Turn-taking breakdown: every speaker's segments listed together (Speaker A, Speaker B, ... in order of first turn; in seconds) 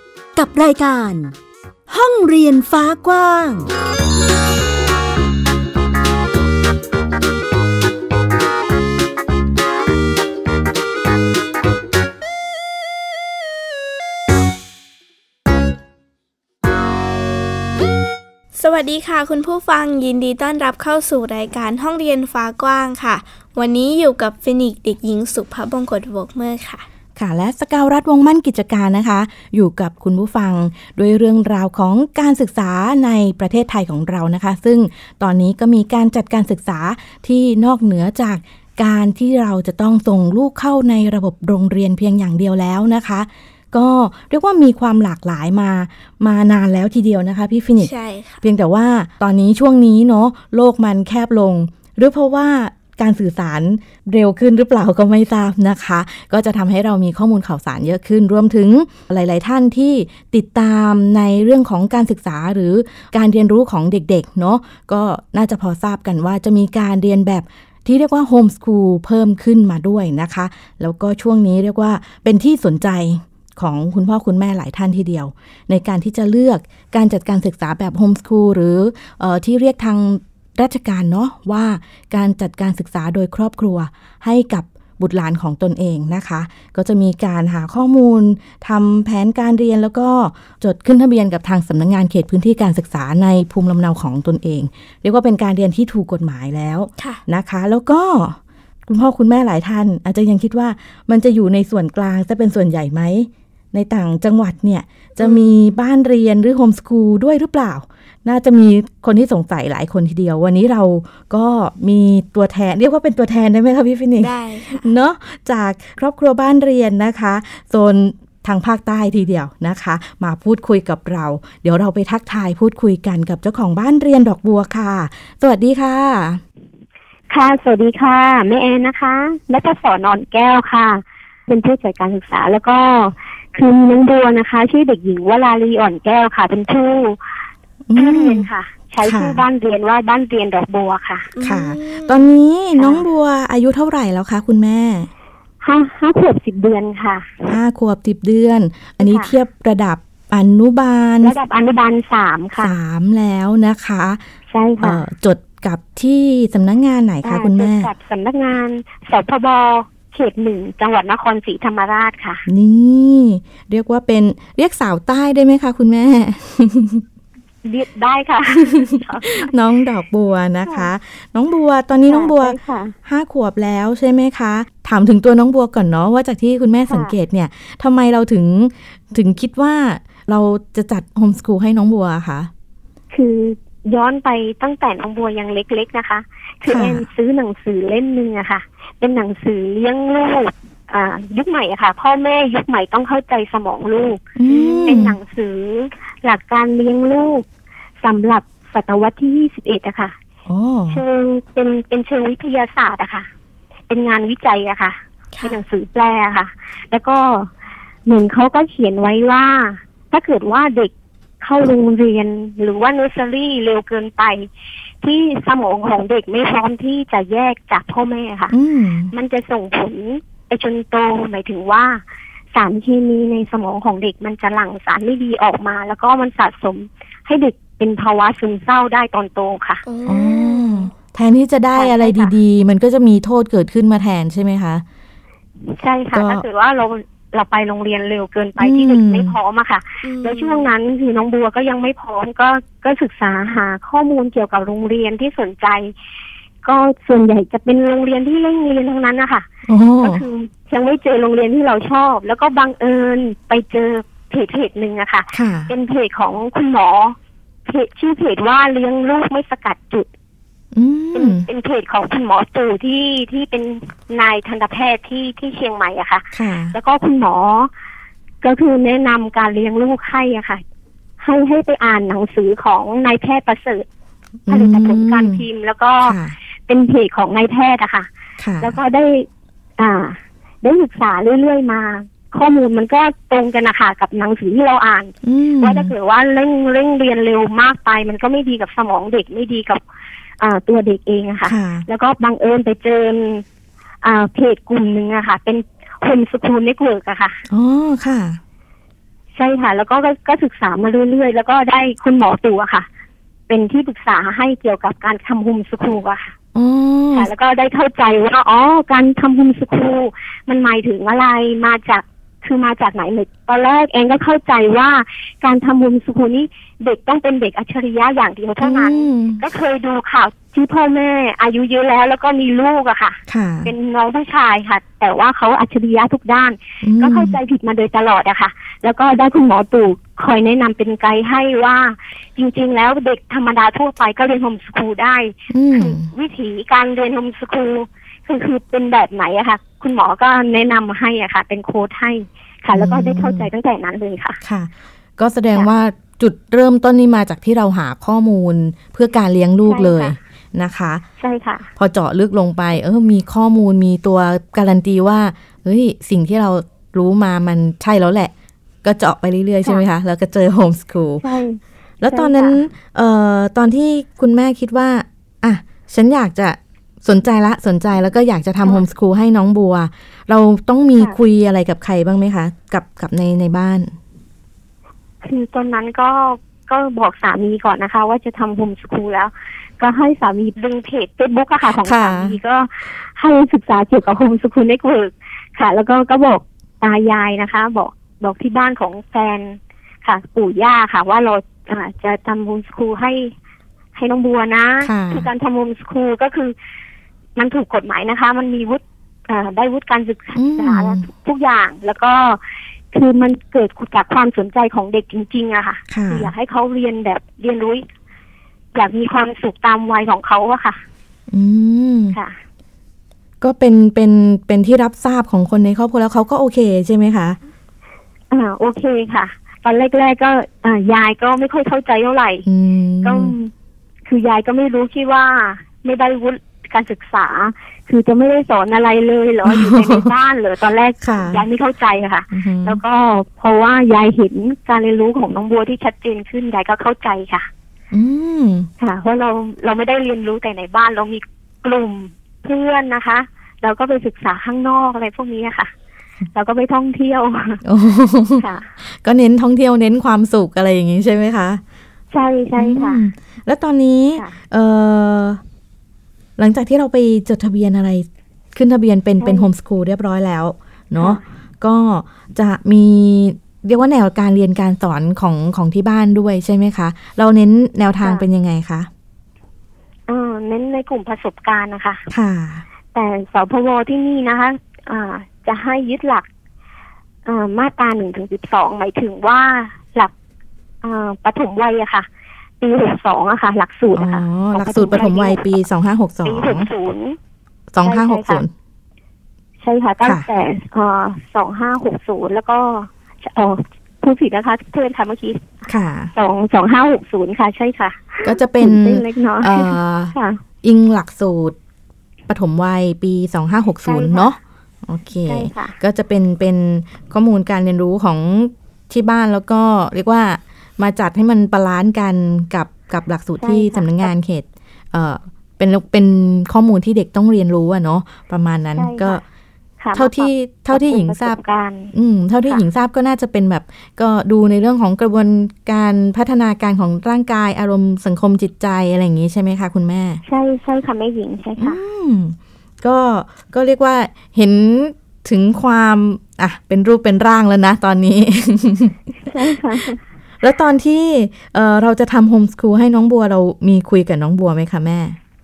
Speaker A: 0.3-1.3, 1.9-3.7
Speaker B: 18.5-26.9, 47.8-48.4, 105.2-105.7, 114.2-114.9, 141.3-142.3, 194.5-195.0, 229.8-230.9, 240.0-240.7
Speaker C: 27.1-126.4, 137.9-138.5, 139.0-139.4, 141.4-145.1, 147.5-151.3, 152.6-154.2, 154.8-157.9, 162.5-167.0, 168.8-182.5, 186.7-187.1, 194.3-195.2, 200.4-201.0, 218.5-219.1, 230.1-234.8, 236.1-236.4, 238.6-239.3, 249.7-250.2, 255.3-255.7, 260.7-261.4, 266.3-266.7, 274.5-275.4, 276.0-276.3, 278.4-278.7, 285.2-285.9, 291.5-291.8, 297.5-298.4, 306.5-307.3, 318.6-319.4, 323.3-323.7, 326.8-327.4, 335.5-336.1, 342.7-343.5, 344.4-351.0, 351.8-358.3, 358.8-361.2, 362.0-373.9, 381.7-382.4, 394.8-395.3, 400.3-401.1, 405.9-406.3, 411.3-412.1, 413.4-417.4, 422.4-423.3, 429.4-430.1, 431.0-431.4, 432.3-432.8, 437.9-438.7, 447.6-451.6, 452.6-455.4, 456.4-468.9, 472.1-472.6, 483.9-486.7, 487.7-488.5, 495.7-496.1, 498.2-501.6, 502.3-519.2, 519.9-521.4, 521.9-530.2, 531.6-539.0, 540.4-545.2
Speaker D: 127.3-137.2, 137.9-141.3, 142.7-143.0, 145.6-147.4, 149.0-149.3, 151.2-152.8, 154.5-155.0, 157.2-162.4, 167.6-169.5, 170.6-170.9, 172.1-172.9, 176.9-177.1, 183.1-197.4, 198.0-200.1, 200.9-203.3, 203.9-207.5, 208.1-214.5, 215.0-218.5, 219.1-222.0, 222.5-229.8, 231.7-232.3, 235.7-245.9, 246.6-249.5, 250.0-260.1, 261.1-267.7, 268.4-270.6, 271.2-273.9, 274.5-278.1, 278.6-279.3, 279.8-289.8, 290.4-293.4, 294.0-297.4, 299.3-302.9, 303.5-306.3, 307.1-344.4, 349.6-350.1, 351.2-351.7, 361.2-362.6, 375.2-393.3, 393.9-396.5, 397.4-402.4, 402.9-407.8, 408.7-410.8, 412.1-412.4, 418.3-422.4, 423.0-423.5, 424.0-437.5, 438.8-445.7, 446.3-447.6, 448.4-448.7, 452.1-453.0, 459.2-459.5, 461.0-461.2, 470.1-472.1, 472.9-476.2, 477.2-480.1, 480.8-482.1, 482.6-485.5, 486.2-487.2, 487.8-488.4, 489.6-495.6, 496.1-500.4, 503.9-504.3, 505.3-505.8, 513.4-514.1, 518.7-519.2, 519.8-521.9, 530.2-531.8, 539.3-540.0